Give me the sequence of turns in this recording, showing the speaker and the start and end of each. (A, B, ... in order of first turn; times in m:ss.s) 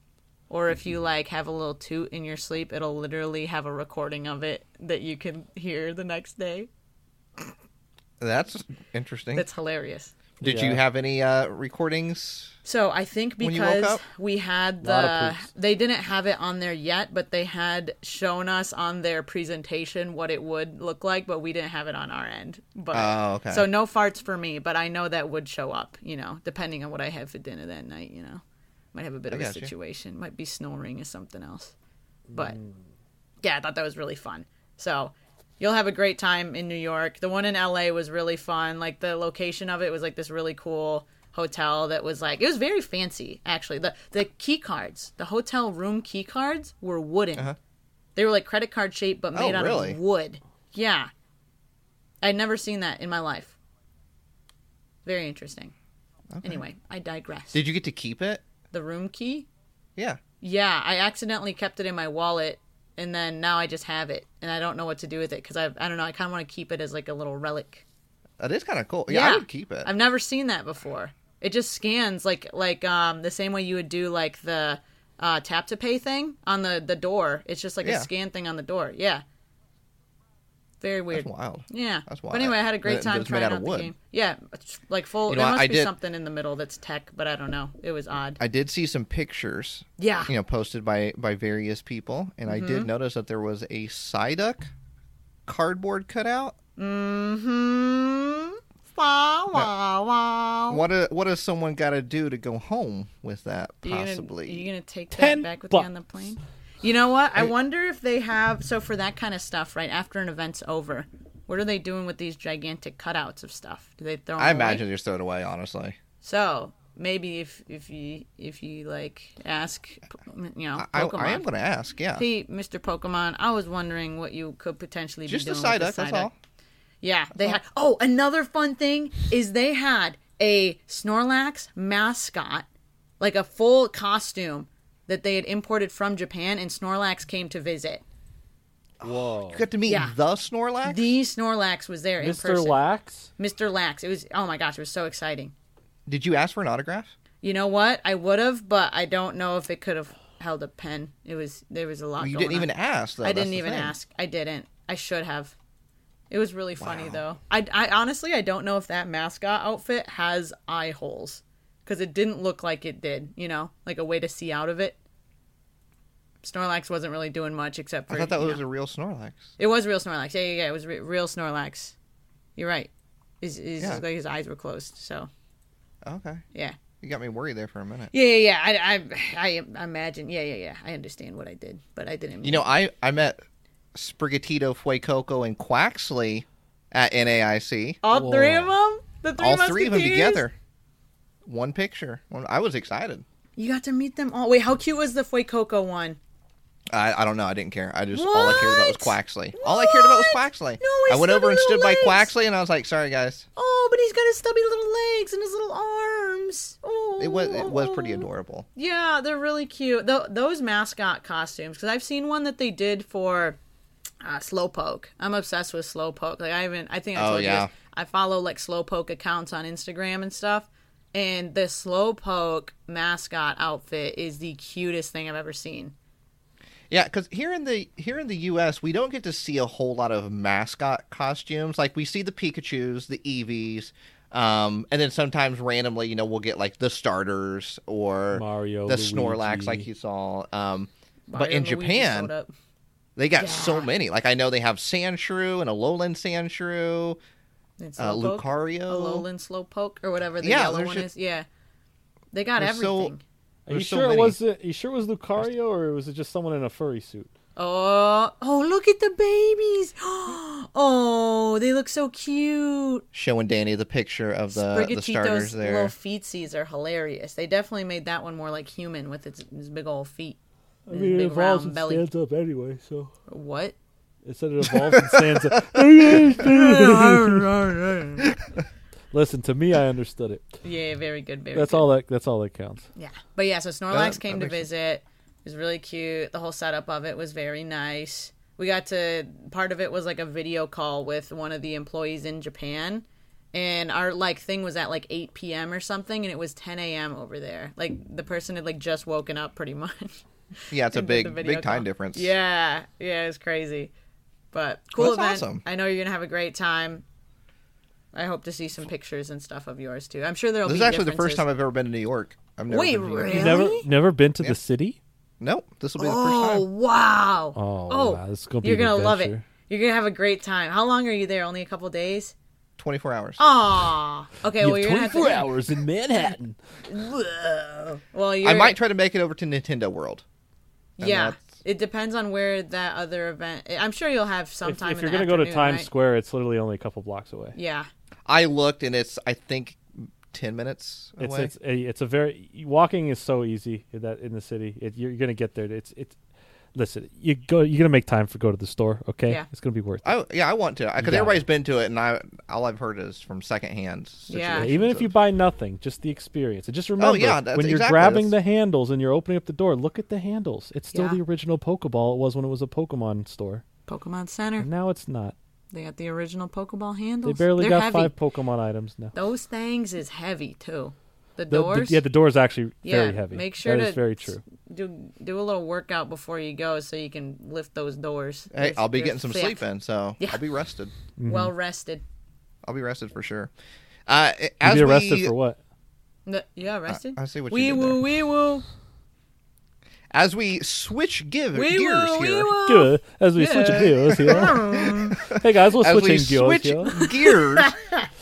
0:00.5-0:06.7 A
0:08.2-0:09.4 B
0:09.3-0:10.1 A
0:10.4-0:12.5 B
0:10.4-0:10.8 C
0:12.6-0:28.4 A
0:13.4-0:14.0 B
0:14.8-0:15.5 C
0:22.9-0:23.7 B
0:28.9-0:31.7 A
0:29.3-0:29.7 B
0:32.3-0:32.8 C
0:33.4-0:47.5 A
0:48.2-0:51.1 A
0:49.3-0:50.0 B
0:52.2-0:53.5 A
0:55.0-0:55.7 A
0:56.3-0:56.6 B
0:56.4-0:57.6 A
0:57.5-0:58.4 B
0:58.7-0:59.5 A
1:00.4-1:07.8 A
1:08.4-1:09.9 B
1:09.1-1:19.2 A
1:17.8-1:18.1 B
1:20.8-1:28.4 A
1:21.1-1:23.9 B
1:25.3-1:25.9 B
1:28.4-1:34.7 B
1:30.0-1:30.3 A
1:32.5-1:32.9 A
1:35.5-1:36.6 B
1:36.8-1:40.8 A
1:40.7-1:44.7 B
1:43.8-1:54.8 A
1:45.1-1:45.9 C
1:54.4-1:56.0 B
1:56.2-2:01.4 A
2:00.8-2:02.2 B
2:02.1-2:06.3 A
2:05.3-2:06.3 B
2:07.0-2:12.6 A
2:13.2-2:18.0 A
2:19.0-2:21.2 B
2:19.0-2:19.7 C
2:19.8-2:20.2 A
2:20.8-2:22.8 A
2:22.2-2:23.3 C
2:23.4-2:25.5 A
2:26.1-2:27.1 B
2:27.4-2:32.7 A
2:32.2-2:33.9 B
2:33.2-2:35.5 A
2:36.3-2:45.0 A
2:36.8-2:37.2 B
2:46.4-2:48.6 A
2:48.1-2:49.5 B
2:49.6-2:51.9 A
2:52.6-2:52.9 A
2:53.4-2:55.3 A
2:56.0-2:56.4 B
2:57.0-2:58.1 B
2:58.1-3:02.7 A
3:02.4-3:03.4 B
3:03.9-3:08.0 B
3:08.0-3:10.4 A
3:08.1-3:08.7 C
3:09.4-3:10.5 B
3:11.4-3:13.2 B
3:13.6-3:16.2 A
3:16.9-3:23.4 B
3:18.1-3:22.3 A
3:23.6-3:33.6 A
3:27.2-3:28.7 B
3:34.2-3:45.9 A
3:37.2-3:37.7 B
3:46.9-4:02.3 B
3:58.3-3:59.9 C
4:01.3-4:02.5 A
4:03.2-4:07.2 B
4:03.4-4:03.9 A
4:07.8-4:11.4 A
4:08.0-4:09.2 B
4:10.4-4:11.1 B
4:12.3-4:13.2 A
4:12.6-4:13.1 B
4:13.7-4:17.3 C
4:13.7-4:14.4 B
4:17.6-4:23.0 A
4:23.1-4:25.9 B
4:24.5-4:30.4 A
4:30.9-4:33.1 C
4:30.9-4:32.0 A
4:33.3-4:33.7 A
4:34.2-4:37.4 C
4:34.9-4:35.8 B
4:36.4-4:38.3 A
4:39.1-4:40.5 C
4:40.6-4:41.9 A
4:41.5-4:42.8 C
4:43.0-5:03.9 A
4:43.9-4:44.6 B
5:00.7-5:02.3 B
5:04.5-5:07.0 A
5:05.0-5:05.6 B
5:08.1-5:11.4 A
5:10.6-5:13.7 B
5:12.7-5:13.9 A
5:13.3-5:15.0 C
5:15.4-5:16.6 B
5:16.0-5:22.3 A
5:17.5-5:19.4 C
5:22.8-5:23.4 B
5:23.4-5:25.5 A
5:24.6-5:26.6 C
5:26.9-5:28.8 A
5:28.4-5:30.2 B
5:31.0-5:35.9 A
5:31.0-5:31.5 B
5:34.6-5:37.5 C
5:37.5-5:37.9 A
5:38.3-5:41.5 B
5:41.2-5:46.2 C
5:46.7-5:50.1 C
5:50.0-5:55.1 B
5:51.0-5:51.4 C
5:54.3-5:54.7 A
5:54.5-6:03.6 C
5:57.0-5:58.3 B
6:00.9-6:01.2 A
6:03.9-6:04.7 A
6:04.6-6:05.3 C
6:05.7-6:08.1 A
6:07.2-6:09.1 C
6:09.1-6:12.0 A
6:11.5-6:14.4 C
6:12.8-6:19.6 A
6:18.5-6:20.9 B
6:21.2-6:21.5 C
6:21.2-6:22.0 A
6:22.6-6:23.5 B
6:24.1-6:25.3 B
6:24.6-6:25.6 C
6:26.2-6:28.6 A
6:26.9-6:28.0 B
6:30.1-6:32.5 B
6:31.5-6:35.2 A
6:32.6-6:34.6 C
6:34.5-6:37.7 B
6:35.2-6:37.0 C
6:36.9-6:38.1 A